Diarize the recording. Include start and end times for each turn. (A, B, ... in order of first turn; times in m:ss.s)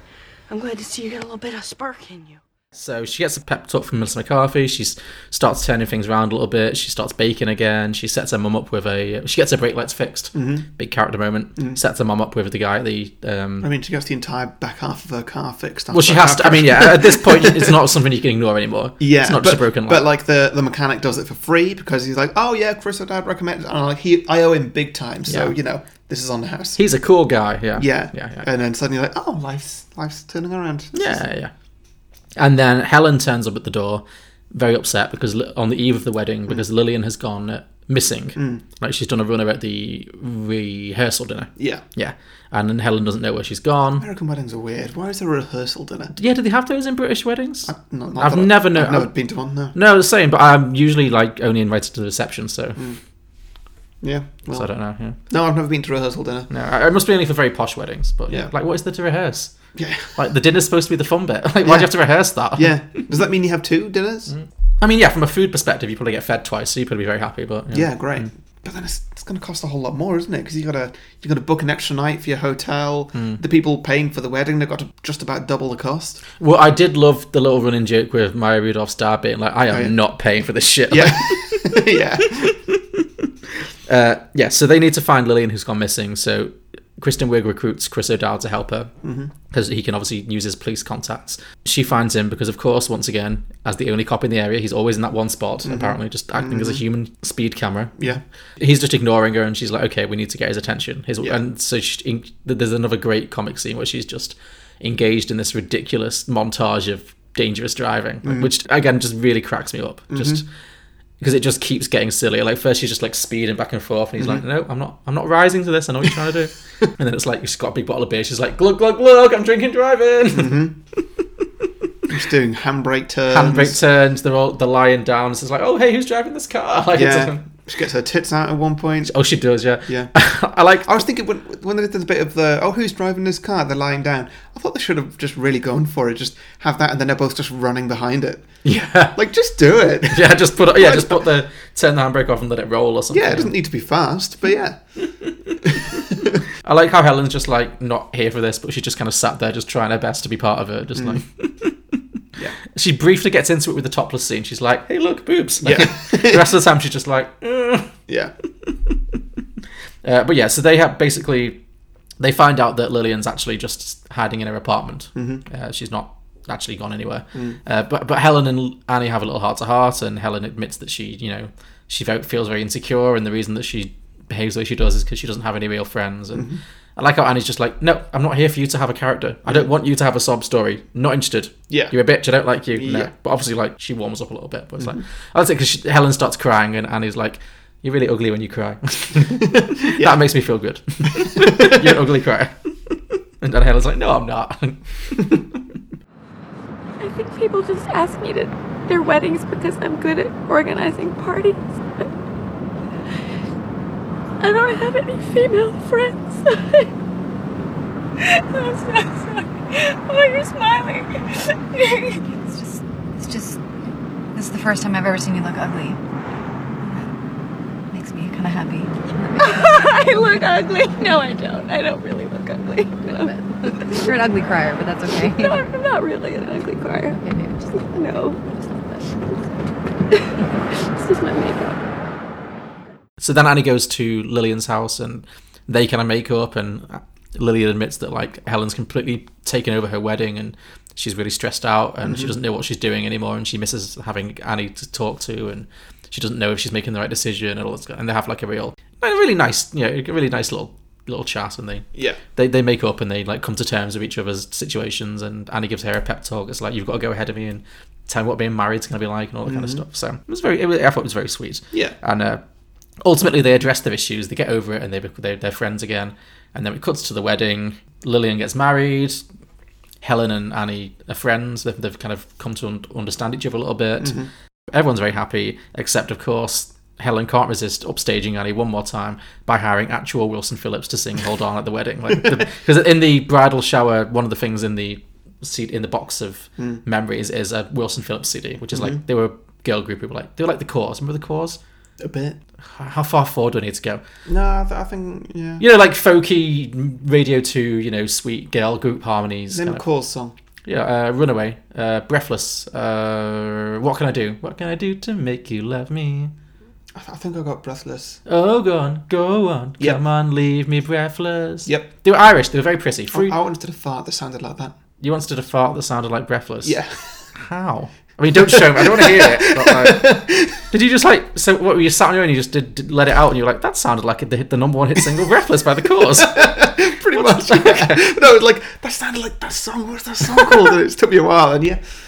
0:00.5-0:02.4 A
0:02.7-0:13.7 B
0:10.3-0:10.7 C
0:13.6-0:17.8 C
0:15.9-0:20.0 B
0:19.0-0:26.8 C
0:25.3-0:25.6 B
0:26.8-0:28.4 B
0:27.8-0:31.2 C
0:30.9-0:31.5 B
0:32.4-0:44.0 B
0:38.4-0:38.6 C
0:41.6-0:41.8 C
0:44.0-0:46.1 C
0:46.1-0:49.1 B
0:47.6-0:49.8 C
0:49.7-0:52.8 B
0:54.0-0:54.7 C
0:54.5-0:55.2 B
0:55.2-0:56.5 C
0:56.5-0:59.5 B
0:59.7-1:00.2 C
1:00.1-1:03.0 B
1:01.6-1:01.9 C
1:02.5-1:04.3 C
1:04.3-1:08.3 B
1:07.7-1:16.2 C
1:13.1-1:13.4 B
1:16.4-1:28.9 B
1:19.7-1:20.0 C
1:20.9-1:22.5 C
1:29.0-1:29.3 C
1:29.5-1:50.4 B
1:35.6-1:36.8 C
1:48.2-1:48.5 C
1:50.1-1:50.4 C
1:51.2-2:00.7 B
2:00.3-2:00.7 C
2:02.1-2:03.8 C
2:03.3-2:07.4 B
2:06.9-2:09.1 C
2:09.0-2:11.0 B
2:09.9-2:10.1 C
2:10.8-2:18.5 C
2:18.6-2:19.2 B
2:19.1-2:21.2 C
2:20.0-2:23.5 B
2:23.1-2:24.8 C
2:25.4-2:26.0 B
2:25.6-2:26.3 C
2:26.6-2:31.8 B
2:31.0-2:31.2 C
2:32.7-2:37.9 B
2:35.6-2:36.5 C
2:38.1-2:38.3 C
2:38.7-2:38.9 B
2:40.0-2:41.6 B
2:42.2-3:15.6 B
2:45.1-2:45.4 C
2:47.3-2:47.6 C
2:56.3-2:56.6 C
3:01.7-3:01.9 C
3:02.7-3:03.1 C
3:09.4-3:10.2 C
3:11.2-3:11.9 C
3:17.0-3:22.1 D
3:24.4-3:26.9 D
3:28.2-3:32.2 D
3:32.3-3:33.6 E
3:34.3-3:36.0 E
3:37.9-3:39.6 E
3:39.4-3:44.2 D
3:43.1-3:45.6 E
3:45.2-3:47.2 D
3:47.1-3:49.1 E
3:47.7-3:49.0 D
3:50.1-3:51.8 D
3:53.2-4:22.4 B
4:02.0-4:02.3 C
4:19.5-4:19.8 C
4:23.0-4:29.2 B
4:30.0-4:34.2 B
4:34.0-4:34.3 C
4:34.7-4:51.6 B
4:48.7-4:49.0 C
4:52.0-4:52.4 C
4:52.7-4:54.0 B
4:54.3-4:55.6 C
4:55.6-4:59.8 B
4:59.5-5:00.3 C
5:00.6-5:06.3 B
5:06.9-5:08.2 C
5:08.2-5:13.4 B
5:11.6-5:11.9 C
5:13.1-5:14.7 C
5:15.0-5:16.8 B
5:16.6-5:17.2 C
5:17.3-5:28.0 B
5:18.3-5:20.6 C
5:26.1-5:31.8 C